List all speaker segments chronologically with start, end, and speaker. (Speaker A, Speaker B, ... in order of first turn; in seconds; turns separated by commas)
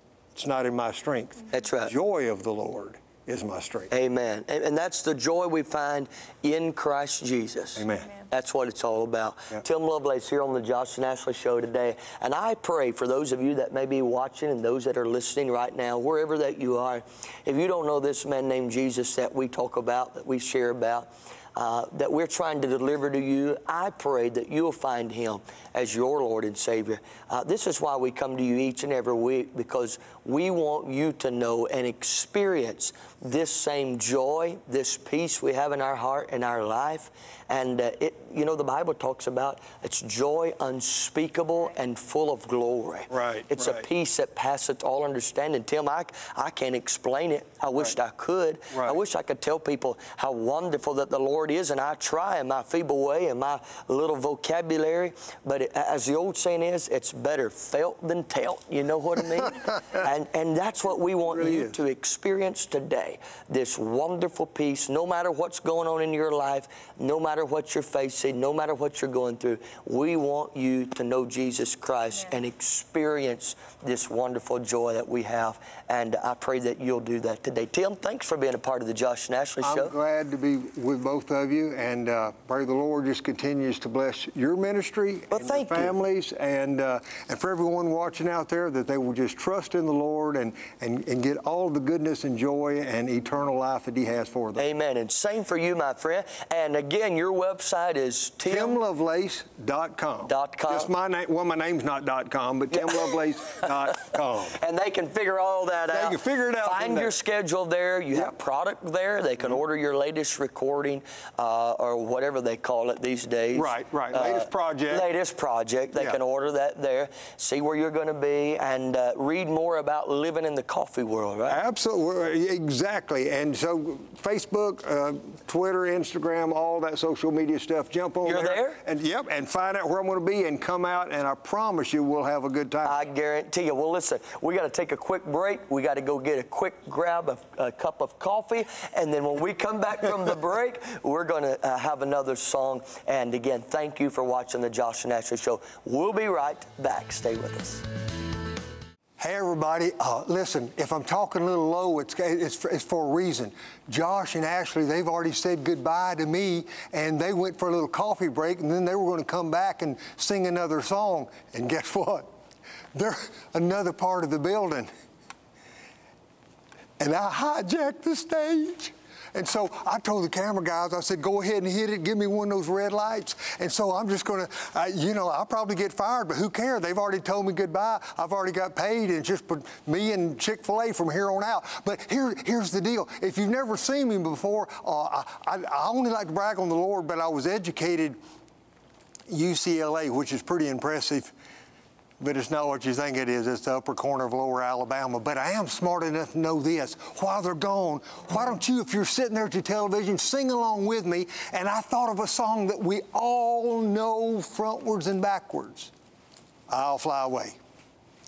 Speaker A: 0.3-3.9, Speaker B: 1.5-1.9, Speaker B: 3.9-79.9, Speaker A: 7.8-8.1, Speaker A: 43.1-43.9, Speaker A: 48.7-49.0, Speaker A: 61.3-61.8, Speaker A: 79.6-94.6, Speaker B: 85.3-85.9, Speaker B: 94.6-98.8, Speaker A: 98.4-104.6, Speaker B: 100.3-100.9, Speaker B: 104.5-121.6, Speaker A: 105.9-107.2, Speaker A: 113.5-115.1, Speaker A: 121.5-133.0, Speaker B: 128.2-128.8, Speaker B: 132.8-147.8, Speaker A: 149.2-162.3, Speaker A: 162.9-164.9, Speaker A: 167.0-188.2, Speaker A: 189.3-191.3, Speaker A: 192.2-205.9, Speaker A: 206.7-207.6